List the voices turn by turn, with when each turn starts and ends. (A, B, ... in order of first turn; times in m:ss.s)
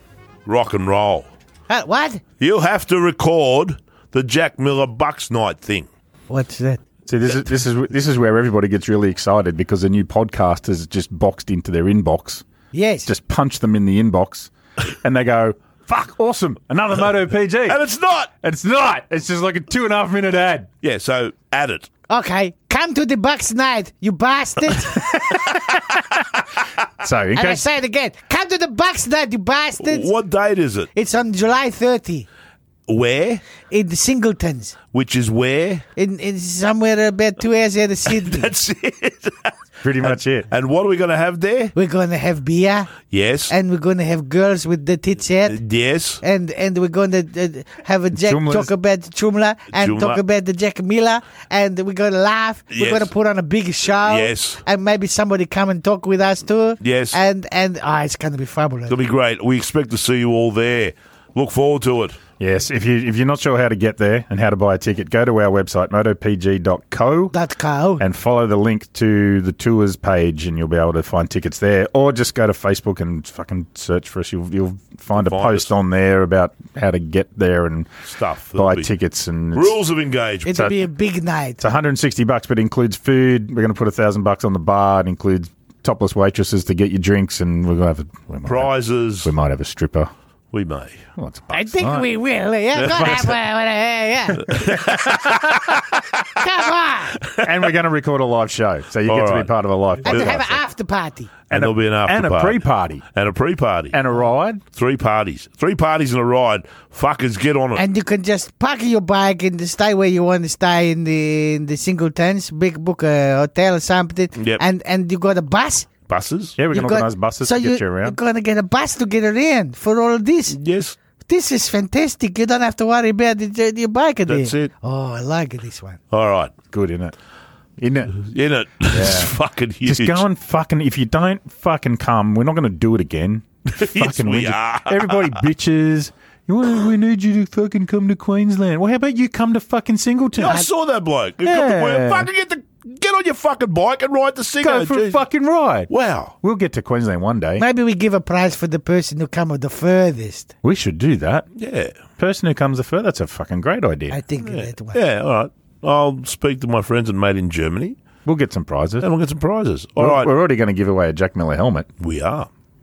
0:00.4-0:01.3 A
0:01.7-0:02.2 B
0:02.4-0:05.9 A
0:06.3-0:06.8 B
0:07.0-0:12.4 C
0:12.7-0:13.1 B
0:13.0-0:17.8 C
0:17.6-0:18.3 A
0:18.4-0:20.7 C
0:20.8-0:21.9 A
0:22.1-0:25.2 B
0:25.1-0:26.0 C
0:27.0-0:27.6 C
0:27.3-0:30.1 B
0:29.8-0:30.9 A
0:30.9-0:32.3 B
0:32.9-0:33.4 A
0:33.7-0:34.8 B
0:34.9-0:35.8 A
0:36.0-0:38.5 B
0:38.0-0:41.7 A
0:39.8-0:40.5 C
0:41.7-0:45.6 B
0:43.1-0:43.5 A
0:45.4-0:46.2 A
0:46.2-0:59.0 B
0:48.1-0:48.7 C
0:49.7-0:50.2 A
0:52.7-0:53.1 A
0:54.0-0:54.6 A
0:56.8-0:57.2 A
0:58.9-1:02.2 A
1:02.4-1:07.3 C
1:07.3-1:08.0 B
1:08.0-1:17.9 C
1:15.1-1:15.7 A
1:18.0-1:18.9 A
1:18.5-1:19.8 C
1:19.5-1:20.6 A
1:20.4-1:21.6 B
1:20.5-1:20.8 C
1:21.6-1:30.1 C
1:28.4-1:29.3 A
1:30.5-1:31.0 A
1:31.2-1:32.1 C
1:31.5-1:34.6 B
1:32.8-1:33.3 A
1:34.4-1:35.9 A
1:34.5-1:35.3 C
1:36.4-1:37.2 B
1:37.2-1:37.7 A
1:37.4-1:40.6 C
1:39.0-1:40.4 A
1:40.0-1:41.3 B
1:41.5-1:43.0 C
1:41.5-1:42.6 A
1:43.1-1:44.0 A
1:43.9-1:44.6 C
1:44.7-1:47.8 A
1:47.8-1:55.9 B
1:54.3-1:54.6 A
1:56.1-1:56.6 A
1:56.6-1:58.2 C
1:56.7-2:00.6 B
2:00.5-2:01.0 A
2:01.3-2:06.0 B
2:04.2-2:04.7 A
2:06.1-2:06.5 A
2:06.7-2:07.1 C
2:07.8-2:08.2 C
2:08.1-2:10.2 A
2:08.9-2:09.3 C
2:09.8-2:20.6 C
2:13.7-2:15.4 A
2:20.4-2:25.2 A
2:21.4-2:22.3 C
2:24.6-2:25.9 C
2:25.9-2:26.3 A
2:26.4-2:27.6 C
2:27.6-2:30.5 B
2:30.6-2:31.5 C
2:31.6-2:31.9 A
2:32.2-2:34.2 C
2:34.1-2:35.0 B
2:34.4-2:38.0 A
2:38.2-2:39.1 C
2:39.0-2:40.3 A
2:40.0-2:41.9 C
2:42.0-2:42.5 A